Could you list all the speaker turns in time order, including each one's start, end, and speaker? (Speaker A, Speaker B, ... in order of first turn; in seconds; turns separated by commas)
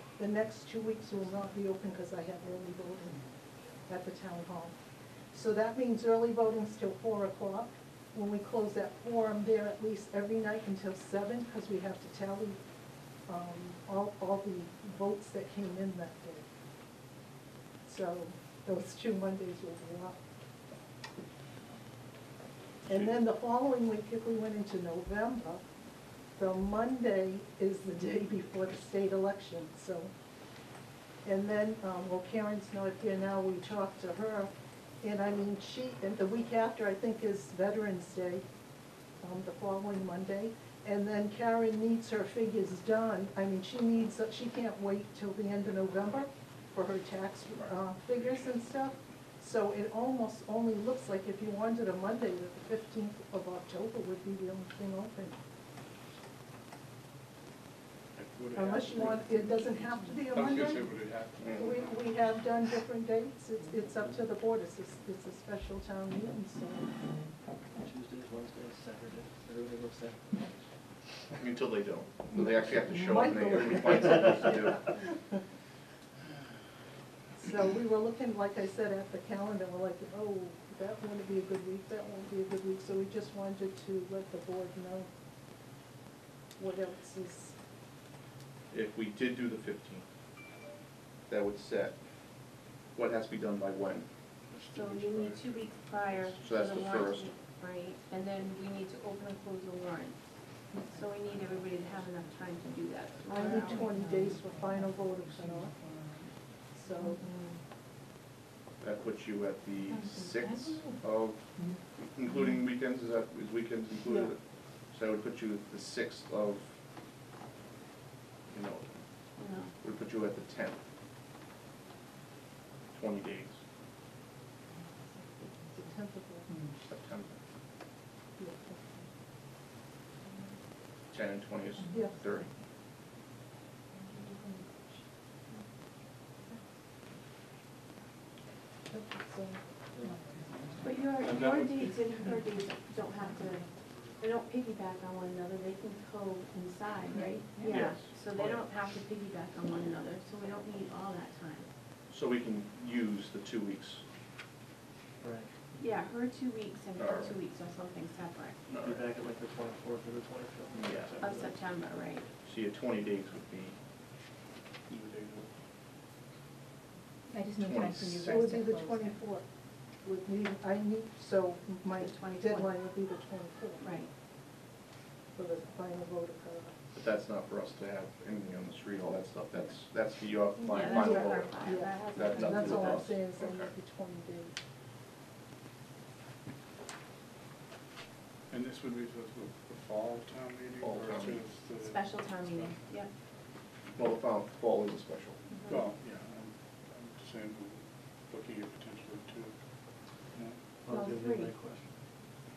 Speaker A: 0.2-3.2, Speaker A: 3.9-4.7, Speaker A: 5.3-12.6, Speaker A: 13.3-16.4, Speaker A: 17.8-20.2, Speaker A: 22.9-25.6, Speaker A: 26.4-30.1, Speaker A: 31.2-34.5, Speaker A: 35.0-38.4, Speaker A: 39.2-55.4, Speaker B: 58.1-62.1, Speaker A: 58.5-60.9, Speaker A: 61.5-66.9, Speaker C: 67.8-70.4, Speaker D: 71.4-74.9, Speaker A: 72.9-75.4, Speaker A: 77.3-85.1, Speaker A: 86.6-87.5, Speaker D: 88.7-90.0, Speaker D: 91.3-92.0, Speaker D: 92.9-94.1, Speaker E: 94.7-100.2, Speaker D: 96.4-97.3, Speaker F: 100.7-101.1, Speaker E: 100.9-103.9, Speaker A: 103.3-105.7, Speaker F: 103.5-106.3, Speaker A: 106.7-107.2, Speaker F: 107.0-107.6, Speaker D: 108.8-114.4, Speaker F: 109.9-111.0, Speaker A: 114.1-114.3, Speaker D: 114.9-116.7, Speaker D: 118.5-118.8, Speaker E: 119.4-119.7, Speaker D: 119.8-120.8, Speaker D: 122.9-123.6, Speaker A: 125.7-126.5, Speaker D: 126.8-127.4, Speaker A: 128.4-129.1, Speaker D: 131.1-132.5, Speaker F: 131.8-132.4, Speaker A: 131.9-132.2, Speaker F: 133.9-134.6, Speaker A: 138.9-139.6, Speaker F: 140.1-140.8, Speaker E: 140.8-151.7, Speaker F: 147.1-147.7, Speaker D: 147.6-148.1, Speaker D: 152.1-154.0, Speaker C: 155.2-155.8, Speaker E: 155.8-158.6, Speaker D: 156.9-157.3, Speaker D: 158.7-159.0, Speaker C: 158.8-161.6, Speaker D: 160.7-161.2, Speaker E: 161.2-162.3, Speaker D: 162.4-163.8, Speaker B: 164.9-165.4, Speaker F: 167.3-169.2, Speaker D: 167.6-168.6, Speaker A: 168.2-169.4, Speaker A: 170.0-173.9, Speaker E: 171.9-172.7, Speaker E: 173.8-174.1, Speaker A: 175.3-176.8, Speaker D: 176.9-183.7, Speaker E: 180.7-183.1, Speaker A: 180.8-184.5, Speaker B: 188.5-192.8, Speaker D: 190.8-191.5, Speaker E: 191.8-193.1, Speaker D: 193.9-195.4, Speaker E: 195.5-195.8, Speaker B: 195.7-199.5, Speaker B: 200.3-200.6, Speaker C: 200.8-202.0, Speaker E: 200.9-201.5